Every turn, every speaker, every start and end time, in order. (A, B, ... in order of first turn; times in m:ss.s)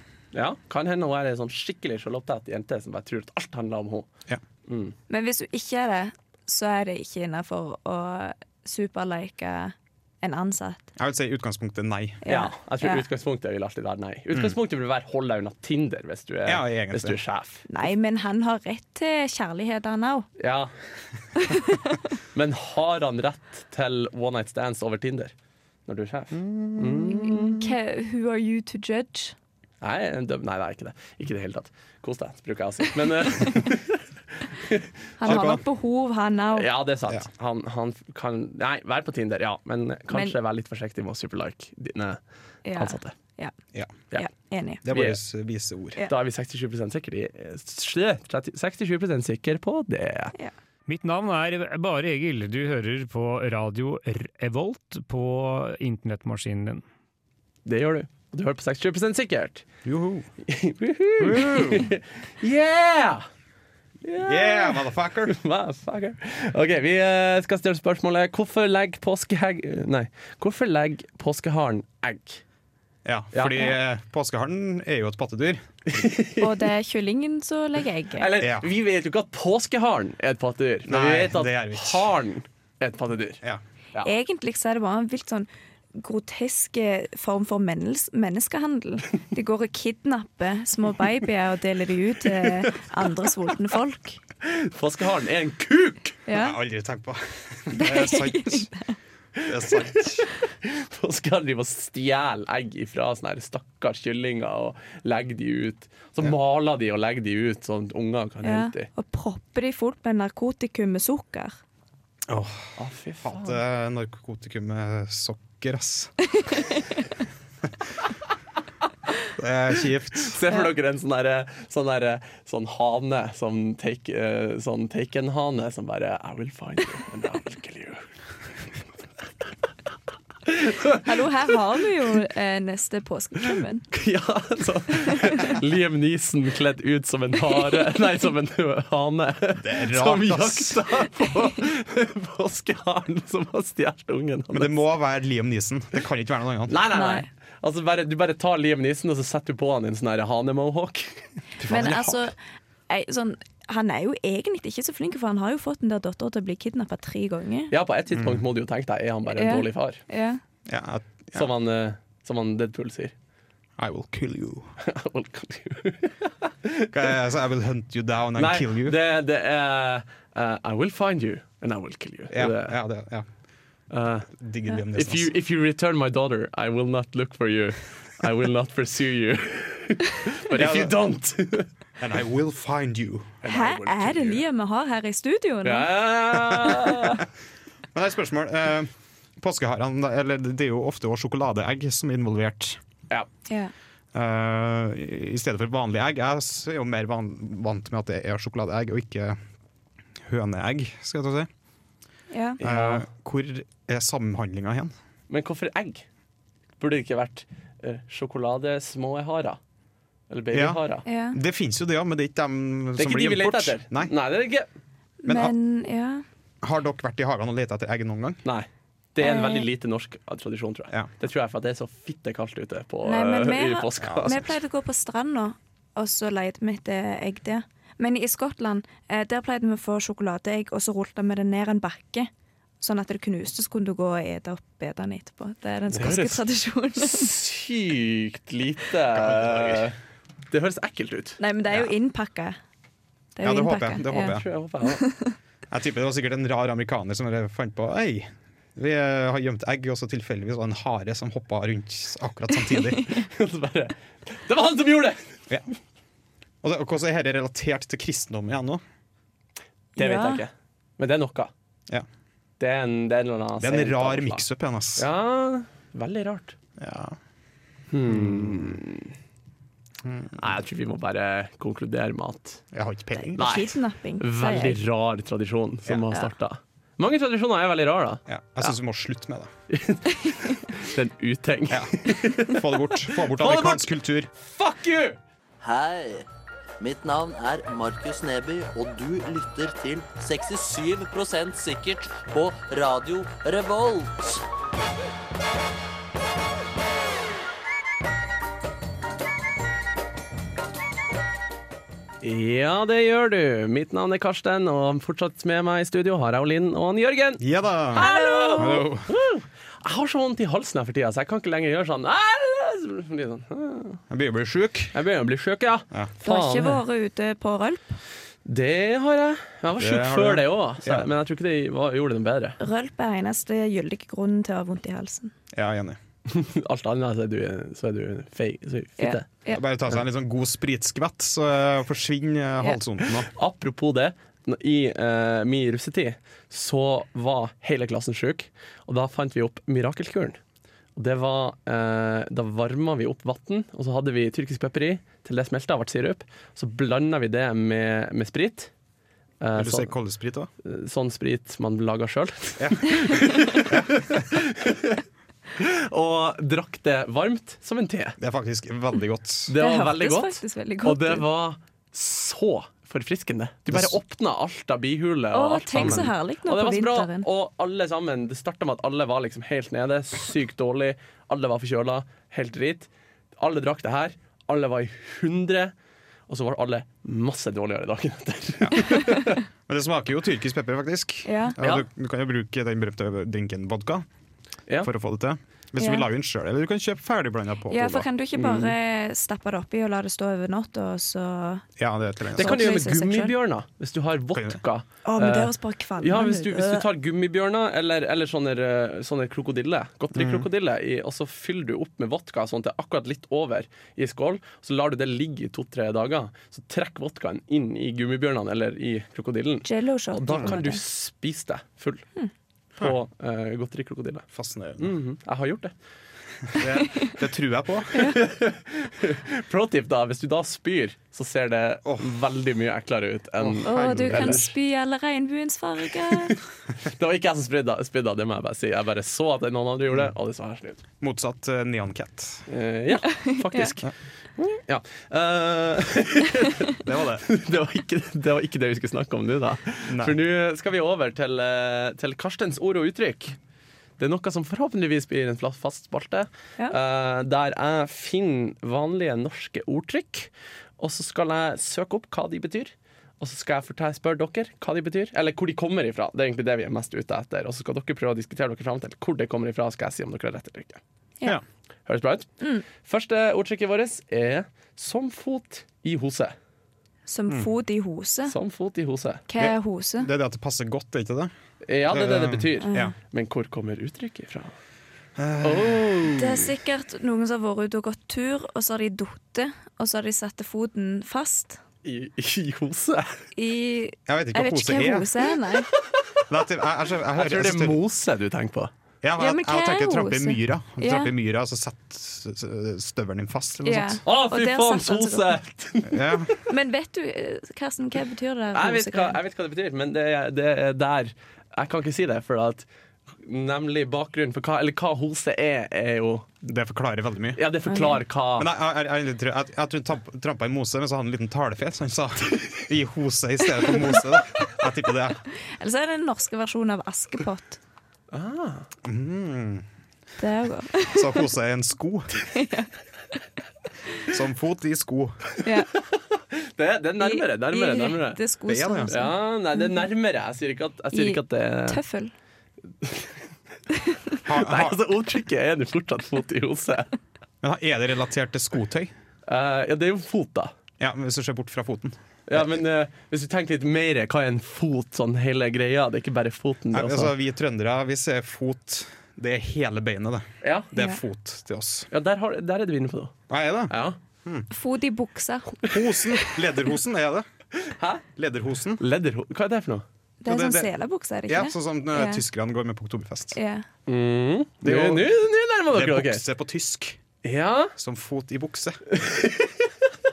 0:00.3-0:04.1 A
0:04.7-0:04.9 A
0:05.1-0:10.9 B
0:11.0-0:12.2 C
0:12.2-0:13.0 B
0:12.3-0:17.6 A
0:16.4-0:17.2 C
0:17.7-0:20.3 B
0:20.4-0:20.7 A
0:21.4-0:22.0 B
0:22.3-0:25.3 A
0:25.9-0:27.6 A
0:26.3-0:27.5 C
0:27.2-0:29.4 B
0:29.8-0:34.0 A
0:34.6-0:35.5 A
0:35.2-0:36.7 B
0:35.2-0:35.6 C
0:36.5-0:42.2 A
0:42.6-0:43.5 B
0:42.7-0:43.1 A
0:44.1-0:44.8 B
0:44.8-0:46.0 C
0:44.9-0:45.2 A
0:46.1-0:50.3 A
0:50.9-0:56.8 D
0:57.6-0:59.6 A
0:59.8-1:00.3 C
1:00.4-1:03.2 A
1:01.2-1:01.9 C
1:04.0-1:12.4 A
1:04.2-1:05.4 C
1:13.0-1:15.8 C
1:13.3-1:13.7 A
1:15.9-1:16.6 A
1:16.4-1:18.3 B
1:18.2-1:23.4 A
1:18.4-1:18.7 C
1:20.9-1:22.1 C
1:24.0-1:34.2 B
1:34.4-1:36.2 A
1:36.2-1:36.6 B
1:36.3-1:38.7 C
1:37.7-1:38.9 B
1:39.4-1:48.9 A
1:39.4-1:40.2 C
1:48.4-1:51.6 B
1:52.3-1:56.1 C
1:52.8-1:53.6 A
1:56.5-1:57.0 B
1:59.4-2:00.4 C
2:00.2-2:08.0 A
2:10.4-2:11.1 A
2:11.0-2:13.8 B
2:13.9-2:24.8 A
2:19.6-2:20.8 C
2:24.5-2:26.8 C
2:26.7-2:32.2 A
2:26.9-2:27.3 B
2:31.6-2:32.3 B
2:32.9-2:37.7 B
2:37.7-2:40.0 A
2:38.1-2:38.4 C
2:39.3-2:40.4 B
2:40.7-2:41.5 C
2:41.3-2:43.1 A
2:43.8-2:44.7 C
2:44.8-2:47.0 A
2:46.9-2:49.0 C
2:48.4-2:52.7 A
2:52.3-2:53.2 C
2:53.9-2:54.3 A
2:54.3-2:55.3 C
2:54.9-3:01.7 A
3:00.5-3:01.0 C
3:02.0-3:03.4 C
3:03.4-3:04.4 A
3:03.4-3:05.9 B
3:05.6-3:07.2 A
3:07.9-3:12.8 C
3:13.5-3:13.7 B
3:14.1-3:19.4 C
3:20.2-3:21.5 C
3:22.3-3:22.6 B
3:22.6-3:23.0 A
3:22.6-3:24.9 C
3:25.3-3:26.0 A
3:26.8-3:29.6 A
3:30.3-3:31.0 A
3:30.5-3:30.8 C
3:31.0-3:31.4 B
3:31.3-3:34.1 C
3:33.0-3:34.7 A
3:35.2-3:36.2 B
3:35.2-3:35.5 C
3:36.6-3:38.4 C
3:38.4-3:44.6 A
3:39.2-3:39.7 B
3:43.0-3:57.4 B
3:44.0-3:44.3 C
3:55.9-3:56.4 A
3:57.0-4:00.0 A
3:59.1-3:59.8 C
4:00.5-4:01.4 A
4:01.4-4:02.6 B
4:03.4-4:05.3 B
4:03.4-4:04.4 C
4:04.2-4:05.0 A
4:05.7-4:13.0 C
4:12.8-4:13.2 B
4:13.1-4:15.4 A
4:16.6-4:18.8 C
4:20.0-4:20.4 B
4:20.0-4:21.5 A
4:22.6-4:24.4 A
4:23.6-4:25.0 C
4:25.0-4:26.6 A
4:26.8-4:27.2 C
4:27.9-4:29.1 A
4:28.1-4:28.8 C
4:30.0-4:30.5 C
4:30.4-4:32.6 A
4:32.7-4:33.6 C
4:33.1-4:34.8 B
4:33.4-4:38.7 A
4:38.3-4:39.5 C
4:39.7-4:45.2 A
4:41.7-4:44.3 C
4:45.6-4:46.3 E
4:46.8-4:54.4 E
5:02.2-5:14.0 A
5:07.4-5:09.1 C
5:08.0-5:08.8 B
5:14.1-5:14.9 C
5:14.9-5:16.8 A
5:16.2-5:18.0 B
5:18.4-5:22.6 A
5:19.8-5:21.1 C
5:22.6-5:25.3 B
5:25.5-5:26.0 C
5:26.3-5:29.3 A
5:29.0-5:29.6 B
5:29.5-5:33.3 C
5:33.3-5:40.4 A
5:41.0-5:48.7 A
5:49.4-5:49.9 A
5:49.5-5:50.5 C
5:50.6-5:55.0 A
5:52.6-5:54.4 C
5:53.0-5:53.6 B
5:55.5-5:58.2 A
5:58.2-5:59.5 C
5:59.5-6:15.7 A
5:59.6-6:01.2 B
6:05.3-6:07.3 B
6:05.7-6:06.1 C
6:16.3-6:19.4 A
6:18.9-6:19.2 B
6:19.7-6:24.0 C
6:21.2-6:21.6 B
6:21.6-6:21.8 A
6:24.8-6:28.0 C
6:25.8-6:26.1 B
6:27.7-6:31.6 B
6:28.4-6:28.7 A
6:31.8-6:32.8 C
6:32.4-6:52.0 A
6:32.4-6:33.3 B
6:34.3-6:34.6 C
6:35.0-6:36.8 B
6:40.1-6:40.5 C
6:49.6-6:50.8 B
6:52.8-6:54.2 A
6:54.3-6:54.9 C
6:54.8-6:55.7 A
6:56.5-6:58.1 C
6:56.6-6:57.1 B
6:57.9-6:58.2 B
6:58.0-7:04.5 A
7:01.8-7:02.1 C
7:03.4-7:04.5 C
7:03.6-7:06.4 B
7:06.8-7:10.8 A
7:11.0-7:12.4 C
7:12.5-7:23.4 A
7:13.0-7:13.7 B
7:16.8-7:17.2 C
7:19.9-7:20.2 C
7:24.0-7:40.8 A
7:41.8-7:46.3 A
7:47.1-7:48.3 B
7:48.3-7:49.2 A
7:49.3-7:50.1 B
7:49.4-7:51.3 C
7:51.6-7:54.5 A
7:51.9-7:52.9 C
7:52.6-7:52.9 B
7:55.2-7:56.0 C
7:55.4-7:56.5 A
7:56.1-8:01.6 B
8:01.8-8:03.2 A
8:03.3-8:05.7 B
8:04.1-8:05.1 C
8:06.3-8:07.8 C
8:07.1-8:08.7 A
8:09.0-8:14.0 C
8:09.2-8:11.1 B
8:13.6-8:15.3 B
8:14.0-8:16.3 A
8:15.9-8:16.3 C
8:16.5-8:19.2 B
8:18.5-8:22.6 A
8:23.2-8:26.3 A
8:26.4-8:27.4 C
8:27.4-8:28.5 A
8:27.7-8:28.0 B
8:28.4-8:35.2 C
8:35.4-8:37.6 B
8:38.1-8:38.7 A
8:38.8-8:39.6 C
8:40.2-8:41.2 B
8:40.9-8:42.1 C
8:42.3-8:42.7 B
8:44.1-8:45.3 C
8:45.4-8:45.7 B
8:46.3-8:48.2 A
8:47.0-8:49.8 B
8:48.5-8:49.0 C
8:48.9-8:51.8 A
8:50.9-8:52.1 B
8:52.8-8:53.2 A
8:53.7-8:54.2 B
8:54.2-8:54.8 C
8:54.3-8:56.9 A
8:57.4-8:58.9 C
8:59.3-9:00.5 A
9:00.8-9:02.4 C
9:02.3-9:07.1 A
9:06.7-9:11.9 C
9:10.4-9:10.7 A
9:11.9-9:13.1 A
9:13.3-9:13.7 C
9:13.7-9:14.0 A
9:14.5-9:15.6 B
9:15.6-9:17.2 C
9:17.6-9:18.0 A
9:18.2-9:18.8 C
9:18.8-9:19.8 A
9:20.2-9:22.2 B
9:20.2-9:20.7 C
9:21.3-9:23.4 C
9:23.3-9:23.6 B
9:23.9-9:26.2 A
9:24.6-9:25.1 C
9:25.7-9:27.0 C
9:27.2-9:27.7 A
9:27.8-9:28.8 C
9:28.9-9:29.7 A